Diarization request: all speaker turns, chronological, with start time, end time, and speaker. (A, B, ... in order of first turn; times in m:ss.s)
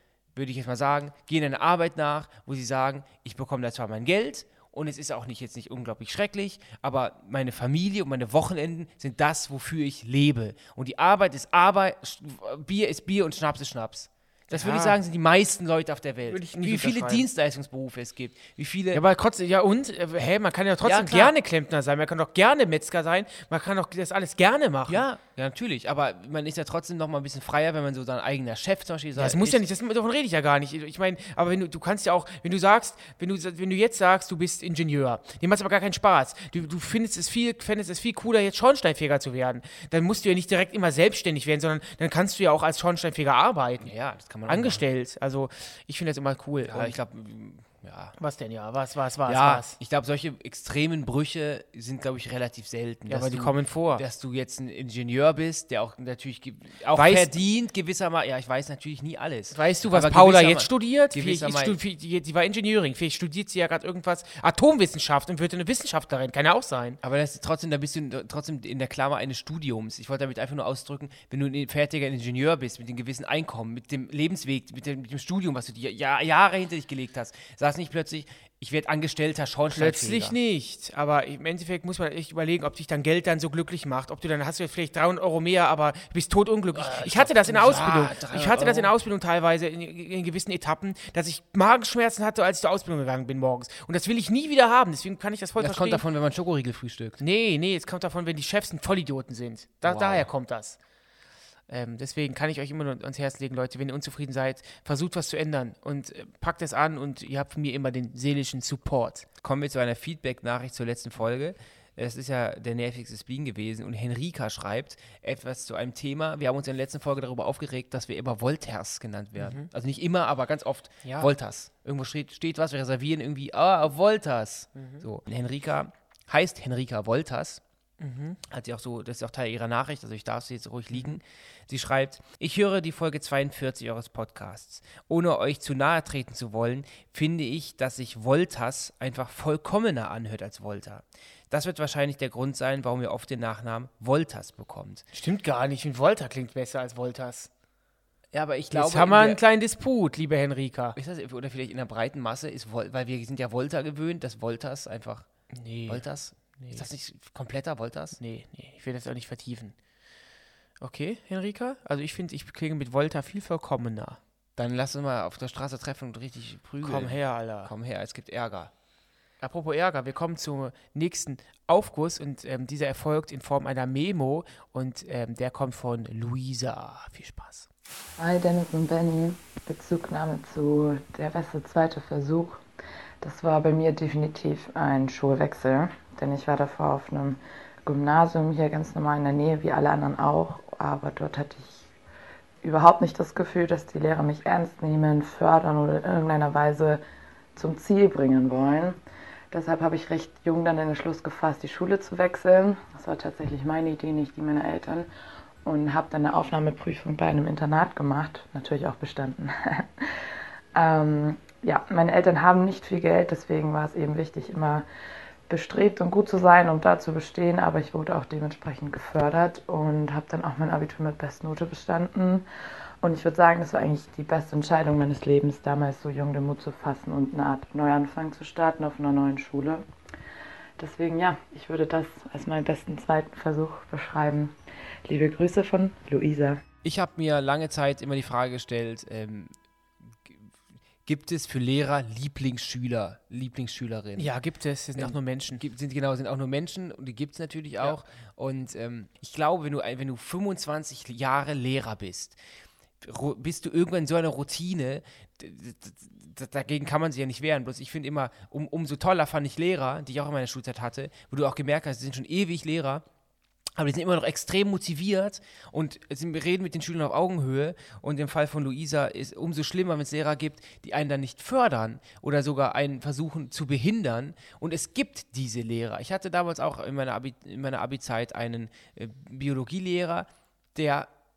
0:00.4-0:19.0 A
0:14.5-0:15.0 B
0:16.3-0:17.3 B
0:18.9-0:25.0 B
0:20.8-0:21.3 A
0:24.9-0:29.6 A
0:29.2-0:43.9 B
0:43.8-0:44.8 A
0:44.5-0:47.0 B
0:46.6-0:48.1 A
0:48.2-0:49.8 B
0:49.3-1:01.8 A
0:53.1-0:54.0 B
0:56.9-0:57.4 B
0:59.5-1:07.0 B
1:07.0-1:20.4 A
1:19.7-1:36.0 B
1:26.8-1:28.9 A
1:35.6-1:37.2 A
1:37.2-1:40.8 B
1:39.8-1:40.3 A
1:41.7-1:49.3 B
1:49.4-2:07.6 A
1:59.4-1:59.7 B
2:01.0-2:01.3 B
2:04.8-2:05.0 B
2:08.0-2:08.4 B
2:08.5-2:25.0 A
2:25.1-2:27.5 B
2:28.3-2:29.4 A
2:28.7-2:31.0 B
2:31.0-2:35.3 A
2:35.5-2:36.9 B
2:35.9-2:38.2 A
2:38.2-2:39.8 B
2:40.8-2:44.2 B
2:44.6-2:48.7 A
2:46.8-2:47.7 B
2:49.4-2:57.7 B
2:58.2-3:02.6 C
3:03.2-3:11.9 C
3:12.6-3:17.0 C
3:17.6-3:19.0 C
3:19.5-3:25.1 C
3:25.6-3:30.1 C
3:30.7-3:34.9 C
3:35.5-3:42.4 C
3:43.0-3:49.8 C
3:50.8-3:56.6 C
3:56.8-3:59.5 A
4:01.1-4:04.3 A
4:04.2-4:05.6 B
4:05.0-4:12.4 A
4:13.0-4:23.0 A
4:23.8-4:41.1 A